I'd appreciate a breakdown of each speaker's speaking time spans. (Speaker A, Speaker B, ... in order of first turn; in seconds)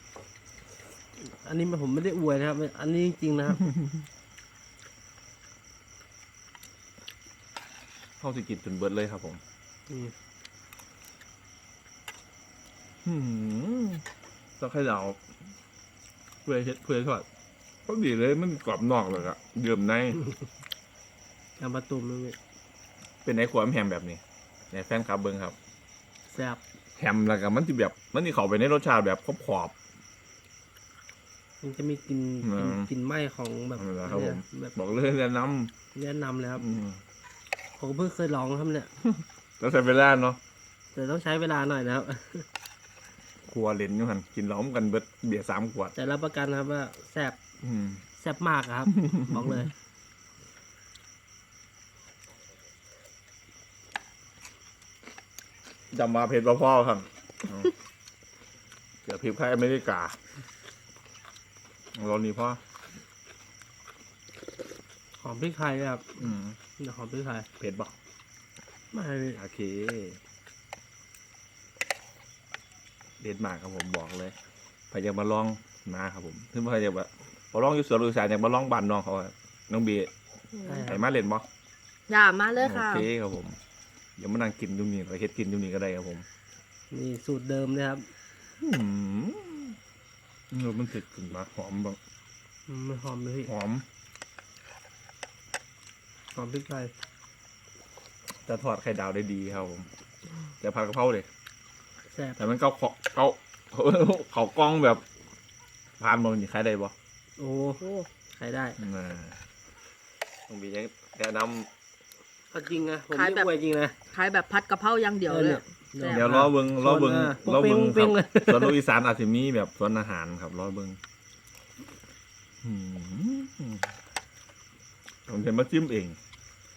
Speaker A: 1.2-3.7, 9.9-10.1, 21.6-22.4, 26.3-26.6, 31.6-34.8, 35.9-36.7, 37.8-38.9, 40.9-42.5, 45.9-47.4, 48.2-49.7, 65.2-67.5, 68.9-69.4, 80.6-81.0, 86.9-88.1, 92.7-93.5, 96.3-96.9, 102.1-102.4, 107.4-108.8, 112.5-114.0, 115.2-118.8
Speaker B: 8.2-9.4, 13.0-14.0, 14.6-15.2, 16.4-17.2, 17.9-20.2, 23.2-25.6, 26.9-29.7, 32.4-32.9, 33.8-35.7, 36.6-37.0, 39.0-40.4, 43.5-45.9, 47.6-48.0, 48.9-49.4, 55.9-57.7, 59.0-60.1, 61.9-62.6, 66.2-66.6, 67.6-67.9, 69.3-70.2, 73.2-74.3, 74.9-80.1, 80.8-81.5, 82.6-83.6, 84.2-86.2, 88.6-89.8, 90.5-92.0, 93.5-93.8, 98.4-99.9, 100.6-101.3, 102.4-105.0, 106.0-106.9, 108.8-109.4, 110.5-111.7, 116.0-121.0, 122.6-123.9, 125.3-126.2
Speaker C: 80.5-80.8, 82.1-83.1, 113.1-113.5, 114.1-116.3